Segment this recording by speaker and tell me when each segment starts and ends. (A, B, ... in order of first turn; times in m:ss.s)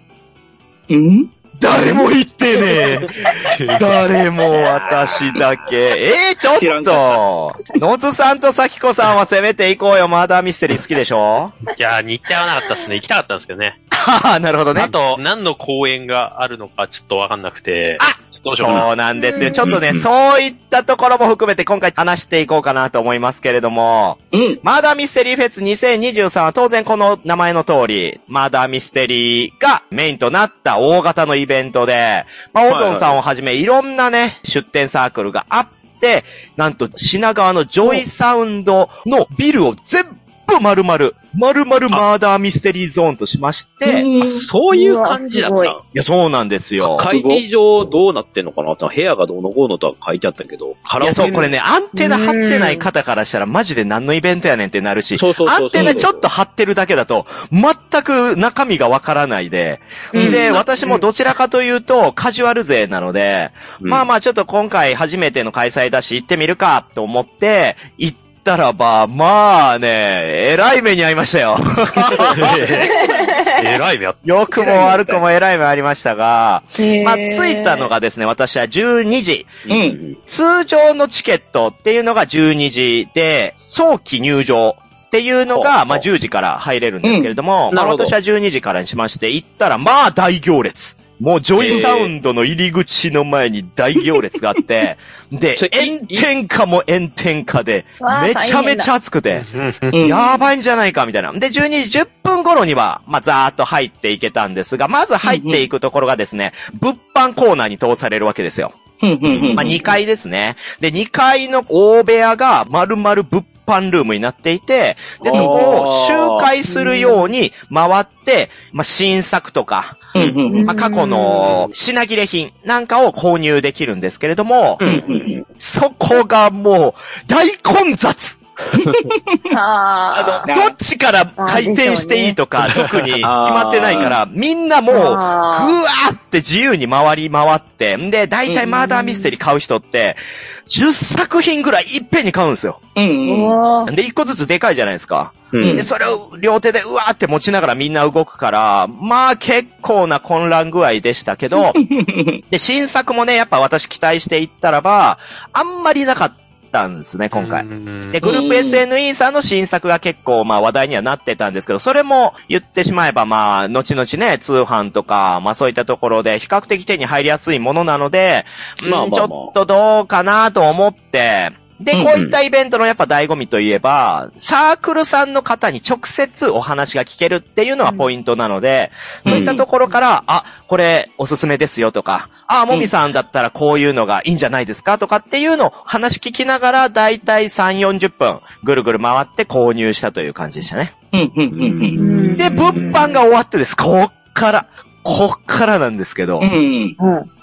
0:00.9-0:01.3 A
0:01.6-0:11.6 B
0:03.4-0:03.9 C
0:04.6-0:05.5 D
0:06.5-0:07.2 A
0:11.8-0:13.8 C
0:13.9-0:14.9 B
0:14.8-0:18.9 C
0:18.0-0:44.1 B
0:19.2-0:19.7 E
0:24.3-0:24.6 A
0:32.7-0:33.2 D
0:43.8-0:44.5 A
0:44.2-0:45.8 D
0:44.7-0:45.8 E
0:45.9-0:47.1 B
0:46.8-0:51.4 D
0:47.0-0:47.4 A
0:51.0-1:12.6 B
0:51.2-0:52.9 E
0:55.2-0:56.2 D
0:55.8-0:56.0 A
1:00.1-1:01.0 E
1:00.2-1:00.6 A
1:03.8-1:04.1 D
1:12.2-1:14.2 C
1:12.2-1:13.4 A
1:12.8-1:13.6 E
1:14.2-1:19.6 B
1:14.6-1:15.2 A
1:16.8-1:17.9 E
1:19.7-1:20.2 D
1:19.7-1:20.0 A
1:20.3-1:48.8 B
1:25.5-1:26.0 D
1:27.0-1:27.3 A
1:27.7-1:28.2 D
1:31.6-1:32.1 D
1:31.7-1:32.0 A
1:35.6-1:36.3 D
1:38.0-1:38.9 E
1:39.3-1:40.0 C
1:39.9-1:40.4 A
1:45.2-1:45.7 A
1:49.0-1:50.0 A
1:49.3-1:49.8 D
1:49.5-2:04.8 B
1:55.2-1:56.5 D
1:55.2-1:55.7 A
1:56.7-1:57.3 E
2:00.1-2:00.7 A
2:00.2-2:00.4 D
2:00.5-2:01.6 E
2:04.8-2:05.4 D
2:04.8-2:05.4 A
2:05.6-2:08.4 B
2:08.8-2:09.4 A
2:09.5-2:10.5 E
2:10.1-2:22.8 B
2:10.5-2:10.8 A
2:11.4-2:12.4 E
2:12.7-2:13.1 C
2:13.2-2:14.2 D
2:14.9-2:15.8 E
2:18.5-2:18.8 A
2:18.7-2:19.3 E
2:23.0-2:23.6 A
2:23.2-2:23.9 E
2:23.9-2:31.8 B
2:25.5-2:25.9 D
2:25.6-2:25.9 A
2:31.6-2:32.4 A
2:32.5-3:10.9 B
2:37.3-2:38.2 C
2:38.2-2:38.8 A
2:48.8-2:49.6 D
2:52.1-2:52.4 D
2:57.8-2:58.1 E
2:59.2-2:59.6 D
3:11.1-3:12.4 A
3:11.5-3:13.1 D
3:12.0-3:13.0 E
3:12.4-3:16.5 B
3:16.4-3:17.0 A
3:17.0-3:17.3 E